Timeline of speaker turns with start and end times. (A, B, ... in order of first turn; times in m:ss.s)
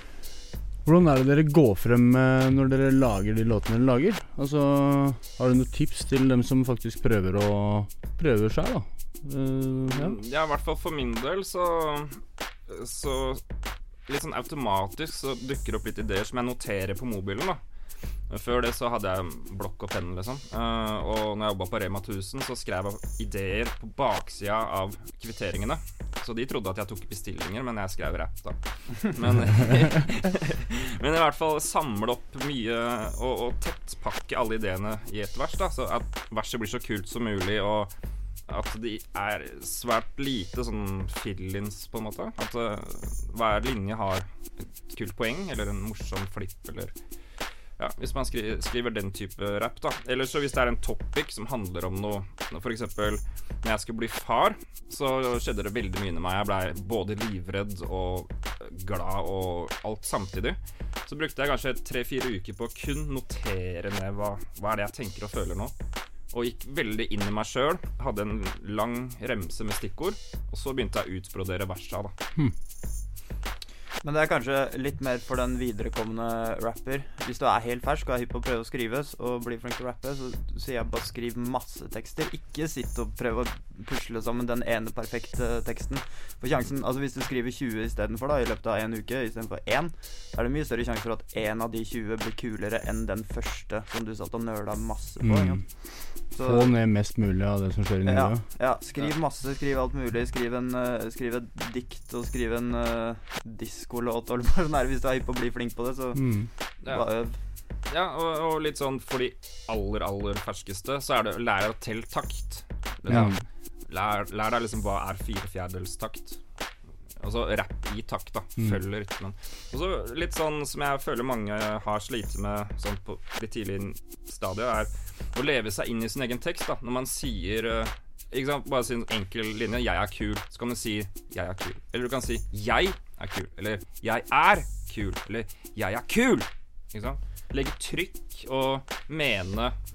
0:00.8-0:10.2 A
0:09.9-0:13.4 B
0:14.1-0:17.6 B
0:18.3-0:37.9 B
0:38.5-0:46.9 B
0:47.8-1:05.7 B
1:06.3-1:12.1 B
1:14.0-1:35.6 C
1:35.2-1:35.6 A
1:36.3-1:36.7 C
1:36.4-1:38.4 A
1:38.0-1:46.2 C
1:46.2-1:46.5 A
1:46.8-1:47.4 C
1:47.9-1:56.4 B
1:53.1-1:53.4 A
1:57.2-2:19.8 B